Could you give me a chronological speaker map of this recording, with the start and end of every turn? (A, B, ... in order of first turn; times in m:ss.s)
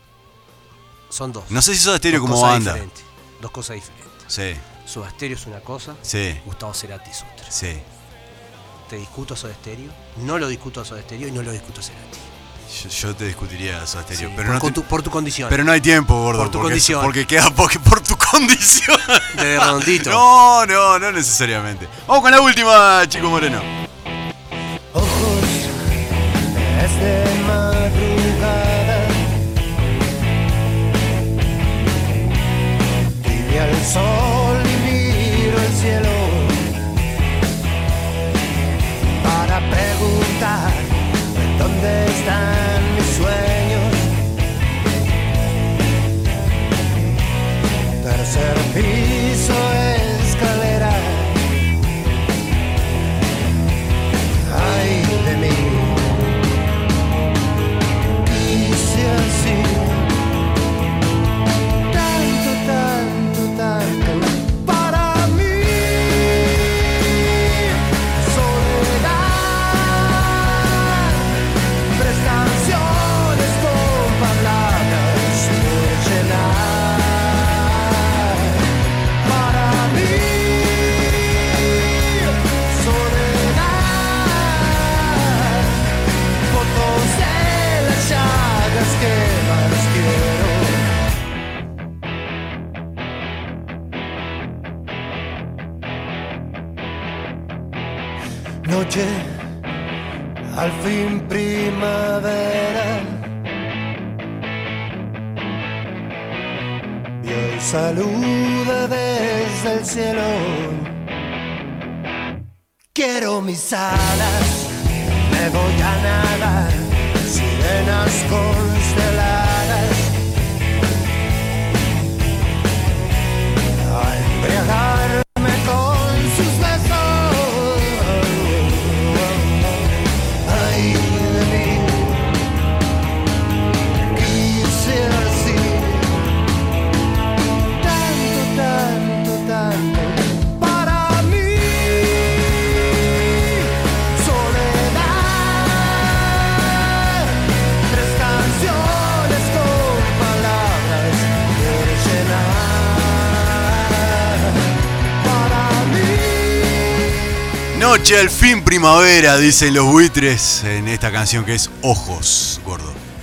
0:01.1-0:04.2 A
0:01.5-0:02.8 B
0:04.3-0:04.6 B
0:04.8-0:07.5 A
0:06.0-0:06.4 B
0:07.5-0:07.8 B
0:08.9-0:12.3 A
0:12.7-0:14.8 B
0:14.1-0:15.6 A
0:15.5-0:23.7 B
0:16.3-0:17.1 A
0:19.3-0:20.2 A
0:24.9-0:25.7 C
0:26.5-0:29.3 C
0:33.2-0:36.7 C
0:39.2-0:44.1 C
0:48.0-0:51.5 C
0:54.4-0:56.3 C
0:58.2-1:00.1 C
1:01.9-1:11.3 C
1:11.9-1:21.2 C
1:21.9-1:25.8 C
1:26.5-1:30.9 C
1:38.6-1:39.3 C
1:40.5-1:43.2 C
1:47.2-1:51.0 C
1:52.9-1:54.7 C
1:55.2-2:00.2 C
2:03.7-2:09.9 C
2:10.4-2:12.3 C
2:14.1-2:16.3 C
2:17.8-2:37.0 C
2:37.7-2:43.0 B